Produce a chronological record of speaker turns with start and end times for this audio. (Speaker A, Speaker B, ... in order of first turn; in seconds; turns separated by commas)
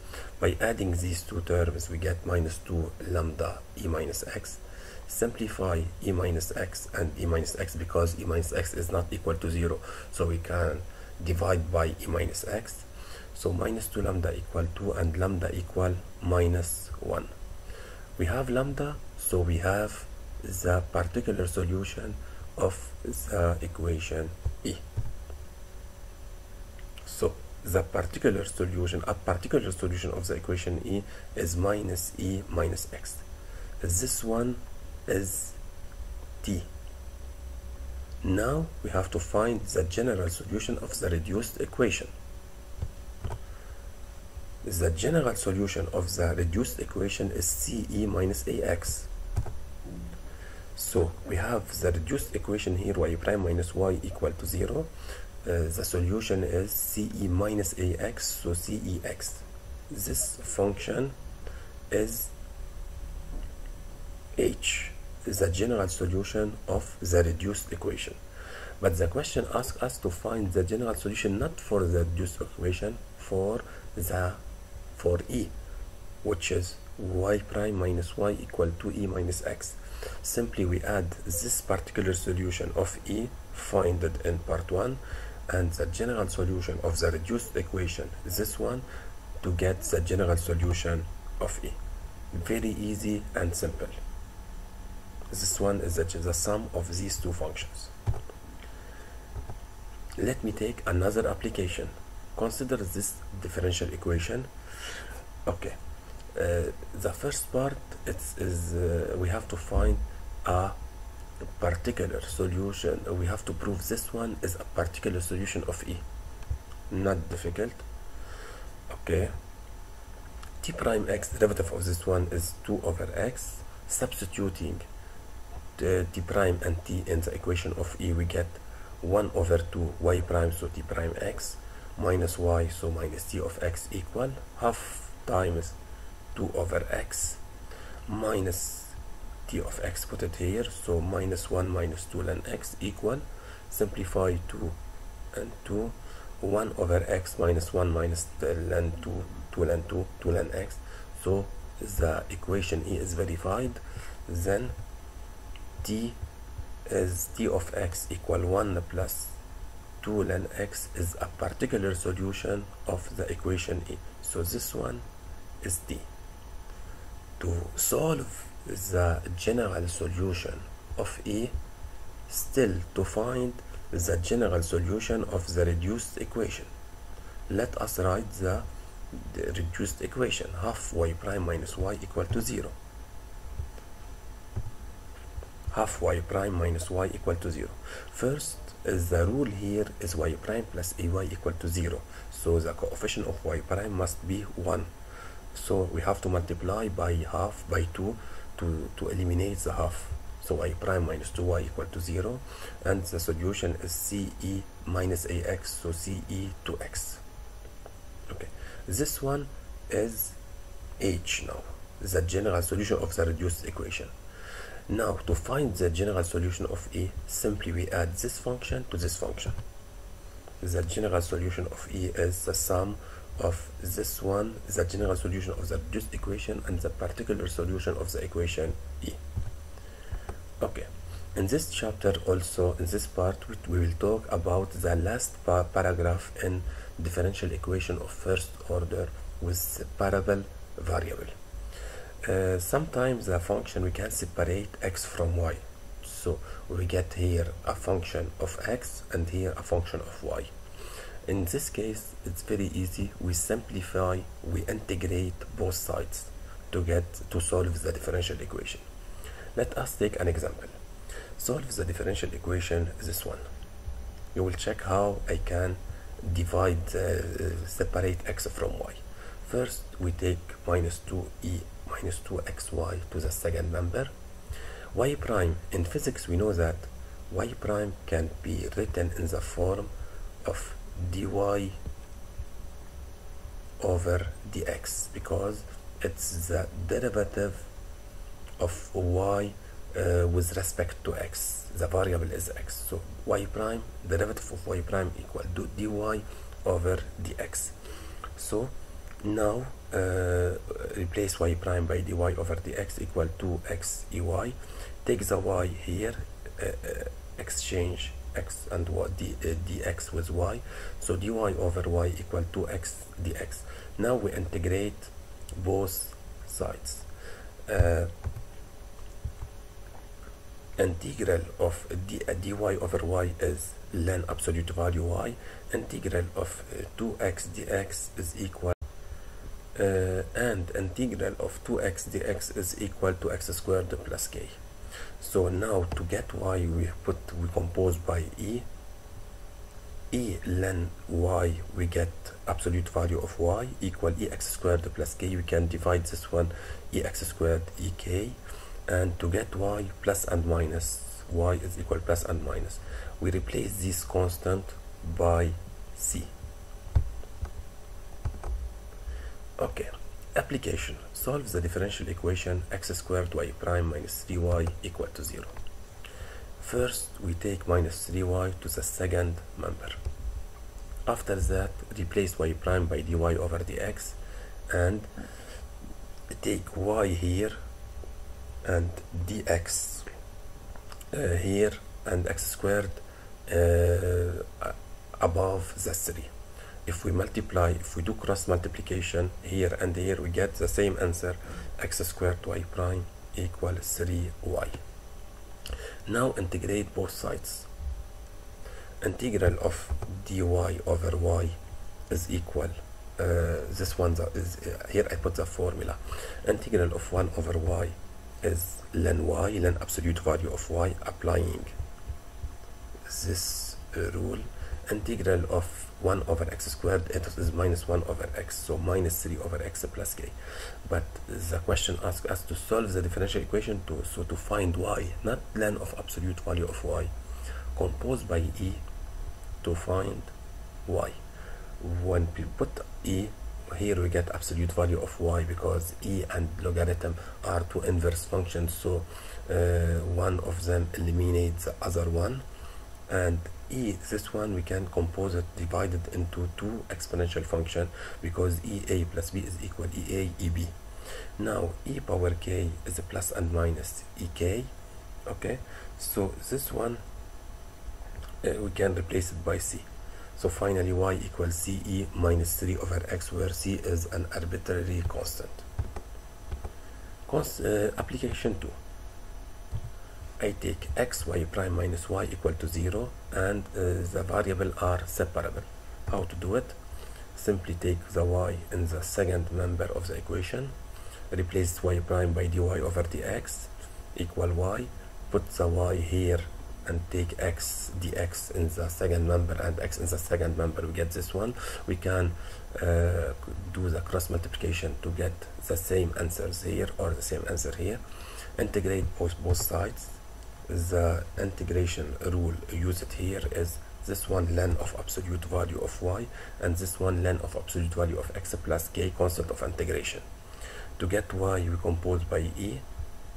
Speaker A: 0.4-17.3, Speaker A: 18.2-24.8, Speaker A: 27.1-33.2, Speaker A: 33.8-35.6, Speaker A: 36.4-36.7, Speaker A: 38.2-42.1, Speaker A: 44.6-49.1, Speaker A: 50.7-54.9, Speaker A: 55.4-61.1, Speaker A: 61.9-62.3, Speaker A: 64.3-68.2, Speaker A: 68.8-74.4, Speaker A: 74.9-75.5, Speaker A: 76.2-88.8, Speaker A: 89.4-91.8, Speaker A: 92.3-94.0, Speaker A: 95.3-97.9, Speaker A: 100.2-104.5, Speaker A: 105.5-105.8, Speaker A: 106.3-110.8, Speaker A: 111.6-116.0, Speaker A: 116.9-117.8, Speaker A: 118.9-119.3, Speaker A: 120.6-124.8, Speaker A: 125.8-135.8, Speaker A: 136.3-137.4, Speaker A: 138.1-144.8, Speaker A: 145.3-154.8, Speaker A: 155.8-156.2, Speaker A: 156.8-159.3, Speaker A: 160.0-165.0, Speaker A: 165.6-166.1, Speaker A: 167.4-171.6, Speaker A: 172.3-176.7, Speaker A: 177.5-182.7, Speaker A: 185.7-194.9, Speaker A: 195.5-207.2, Speaker A: 208.3-210.4, Speaker A: 211.0-214.1, Speaker A: 214.9-219.6, Speaker A: 220.6-229.2, Speaker A: 230.6-241.3, Speaker A: 242.2-250.5, Speaker A: 251.2-258.8, Speaker A: 259.6-260.8, Speaker A: 261.4-263.4, Speaker A: 264.3-274.1, Speaker A: 274.9-279.9, Speaker A: 280.4-281.8, Speaker A: 283.8-287.6, Speaker A: 288.6-297.7, Speaker A: 298.4-317.1, Speaker A: 317.6-318.1, Speaker A: 320.8-328.7, Speaker A: 329.7-334.6, Speaker A: 335.2-338.7, Speaker A: 340.1-356.3, Speaker A: 359.6-365.5, Speaker A: 366.6-370.0, Speaker A: 371.1-374.2, Speaker A: 374.7-375.1, Speaker A: 376.3-377.6, Speaker A: 378.6-380.1, Speaker A: 381.1-386.3, Speaker A: 386.9-394.8, Speaker A: 396.1-397.7, Speaker A: 399.0-401.6, Speaker A: 402.1-411.7, Speaker A: 413.1-427.1, Speaker A: 427.7-428.8, Speaker A: 429.6-430.3, Speaker A: 430.9-431.2, Speaker A: 431.8-442.4, Speaker A: 443.1-450.7, Speaker A: 451.4-454.7, Speaker A: 455.3-457.0, Speaker A: 458.4-465.6, Speaker A: 467.2-468.7, Speaker A: 470.4-476.8, Speaker A: 477.3-480.7, Speaker A: 481.3-498.0, Speaker A: 498.6-510.2, Speaker A: 511.0-512.8